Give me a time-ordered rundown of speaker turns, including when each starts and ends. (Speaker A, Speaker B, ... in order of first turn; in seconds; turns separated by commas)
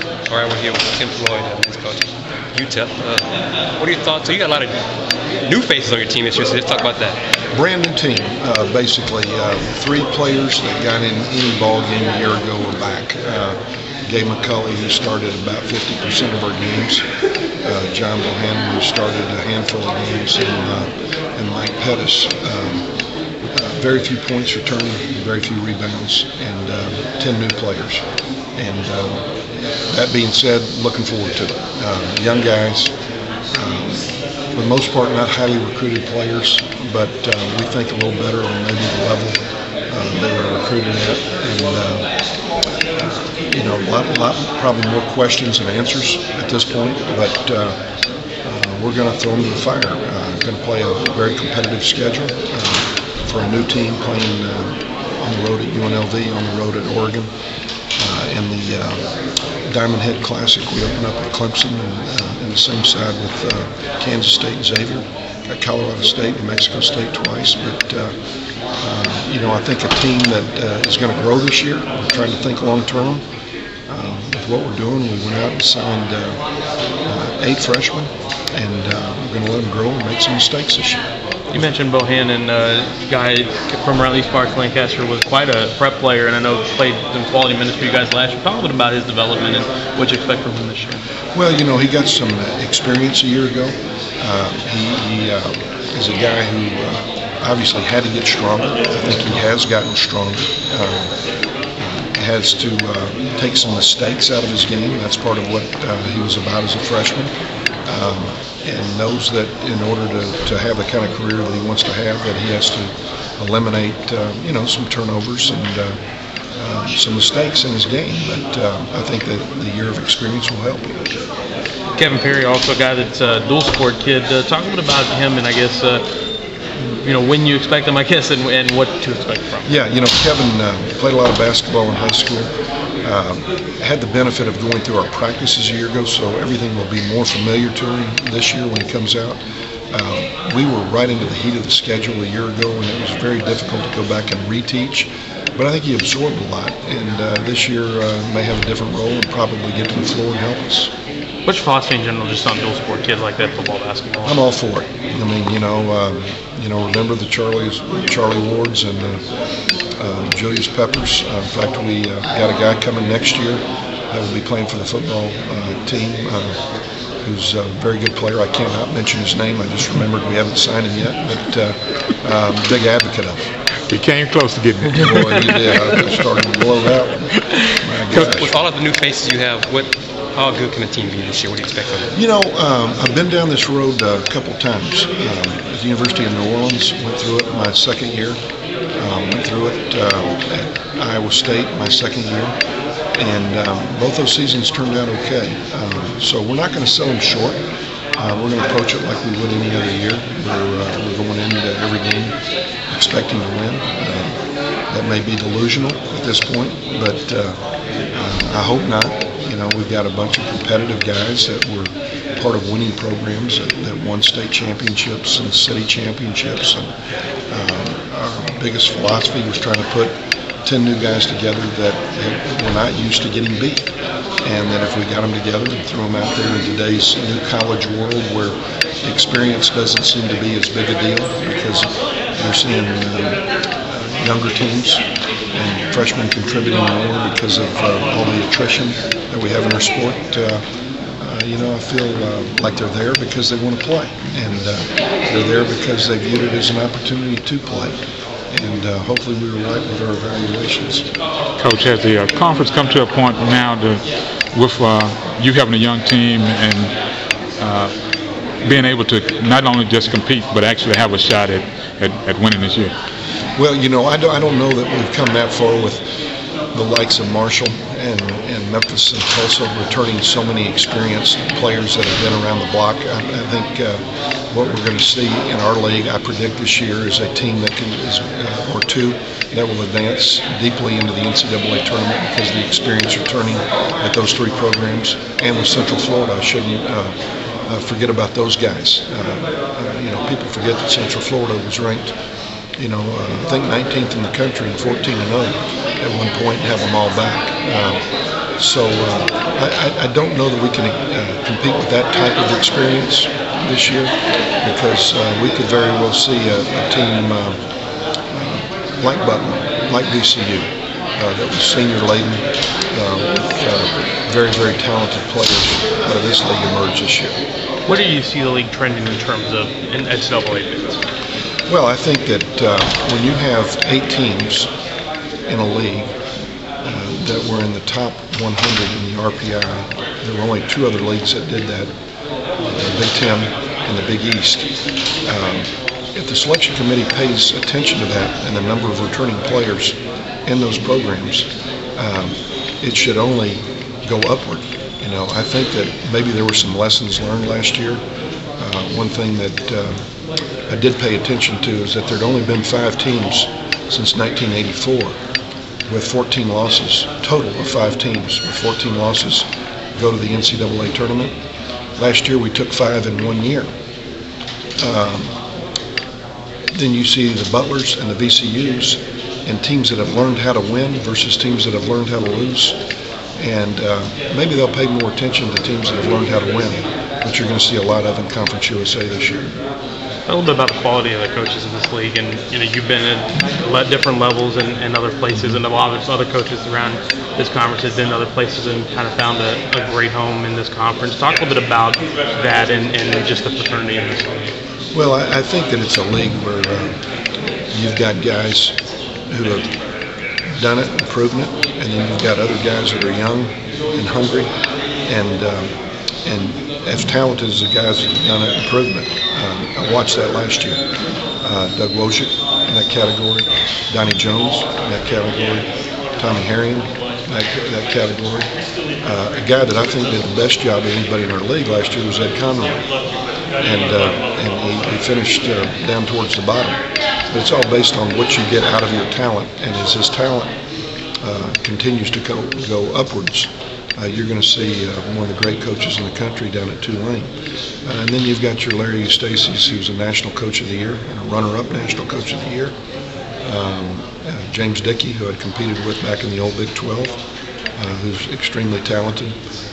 Speaker A: 0.3-3.2, Speaker A: 3.8-4.7, Speaker A: 5.4-7.2, Speaker B: 7.5-17.0, Speaker B: 17.6-22.9, Speaker B: 23.5-28.0, Speaker B: 28.6-29.3, Speaker B: 29.9-32.9, Speaker B: 33.5-42.1, Speaker B: 43.0-47.8, Speaker B: 48.4-57.3, Speaker B: 58.0-59.1, Speaker B: 59.7-68.1, Speaker B: 68.8-73.2, Speaker B: 73.9-76.4, Speaker B: 77.0-81.0, Speaker C: 81.5-91.0, Speaker B: 91.3-101.1, Speaker B: 101.8-107.3, Speaker B: 107.8-116.0, Speaker B: 116.6-121.1, Speaker C: 122.0-126.0, Speaker C: 126.9-129.7, Speaker B: 129.7-132.5, Speaker B: 133.0-139.4, Speaker B: 139.9-150.9, Speaker C: 151.4-154.4, Speaker B: 154.2-159.2, Speaker B: 160.0-166.6, Speaker B: 167.2-173.5, Speaker D: 173.9-176.0, Speaker B: 174.9-178.5, Speaker A: 178.1-182.1, Speaker B: 182.1-188.4, Speaker B: 189.0-192.6, Speaker B: 193.1-197.6, Speaker B: 198.2-202.4, Speaker B: 202.9-204.4, Speaker B: 204.9-207.6, Speaker B: 208.1-216.9, Speaker B: 217.5-223.9, Speaker B: 224.4-240.6, Speaker B: 241.2-248.0, Speaker B: 248.5-251.1, Speaker D: 251.6-256.9, Speaker D: 257.6-257.9, Speaker D: 258.6-262.9, Speaker B: 263.6-266.0, Speaker B: 266.7-287.1, Speaker B: 287.6-292.1, Speaker B: 292.8-298.0, Speaker B: 298.6-307.6, Speaker B: 308.3-317.4, Speaker C: 317.9-321.0, Speaker B: 321.7-324.7, Speaker B: 325.5-326.1, Speaker B: 326.8-331.9, Speaker B: 332.6-334.7, Speaker B: 335.2-348.0, Speaker B: 348.6-350.0, Speaker B: 350.7-355.2, Speaker B: 355.9-361.3, Speaker B: 362.0-363.7, Speaker B: 364.8-365.4, Speaker B: 366.7-372.8, Speaker B: 373.4-379.6, Speaker C: 380.2-394.5, Speaker B: 394.9-396.9, Speaker B: 397.7-398.8, Speaker B: 399.3-399.7, Speaker B: 400.6-404.5, Speaker B: 405.1-405.7, Speaker B: 406.2-410.8, Speaker B: 411.4-418.5, Speaker B: 419.0-422.8, Speaker B: 423.6-430.5, Speaker B: 431.2-437.3, Speaker B: 437.8-442.7, Speaker B: 443.4-447.2, Speaker B: 447.8-449.3